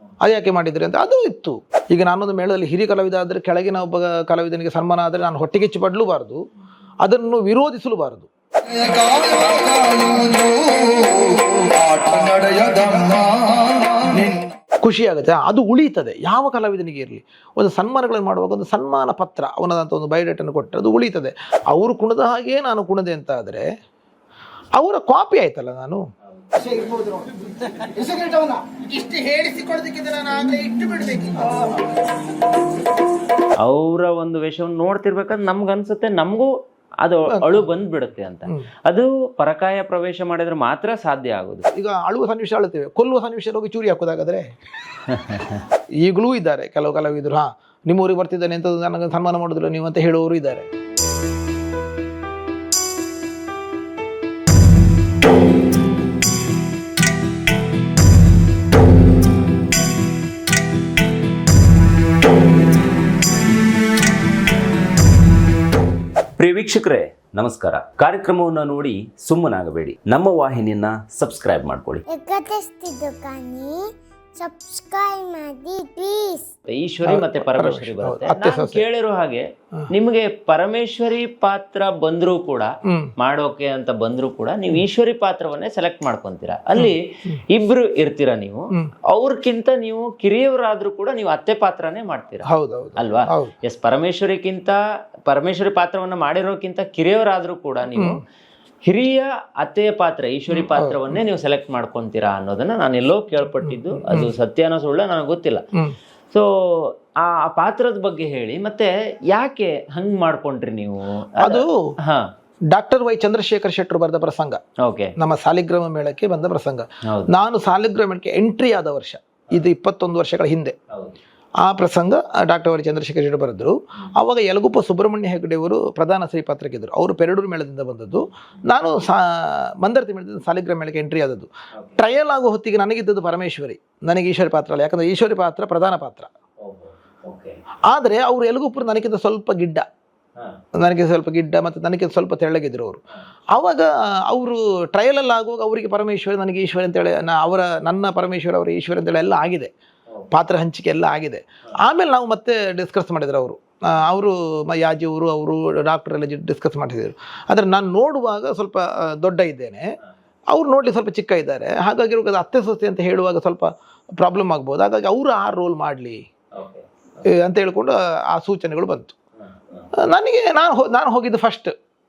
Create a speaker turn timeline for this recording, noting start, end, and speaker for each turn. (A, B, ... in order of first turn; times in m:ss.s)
0:00.2-0:06.4 A
0:07.0-0:08.3 A
0:09.0-0:10.5 A
0:11.2-0:13.4 A
0:14.0-0:23.7 A
0:24.8-0:26.0 A
0:26.6-0:31.8 A
0:33.6-0:36.5 B
0:37.0-0:41.7 B
0:37.3-0:37.6 A
0:41.7-0:44.5 A
0:45.1-0:45.6 B
0:46.0-0:50.7 A
1:06.4-1:12.0 B
1:12.1-1:16.5 C
1:16.7-1:38.2 B
1:17.0-1:18.8 A
1:22.9-1:23.1 A
1:26.8-1:27.4 A
1:32.5-1:33.5 A
1:37.9-1:38.2 A
1:38.9-1:45.7 B
1:40.5-1:41.2 A
1:43.7-1:44.3 A
1:46.3-1:52.3 B
1:51.4-1:51.9 A
1:52.7-1:54.6 A
1:54.9-1:55.1 B
1:55.2-2:00.8 A
2:00.9-2:01.2 B
2:01.6-2:16.3 A
2:16.6-2:17.6 B
2:17.9-2:19.9 A
2:20.8-2:23.0 A
2:23.5-2:29.7 A
2:30.3-2:39.9 A
2:40.5-2:46.2 A
2:46.6-2:46.9 B
2:47.2-2:49.2 A
2:49.5-2:49.9 B
2:50.0-2:51.7 A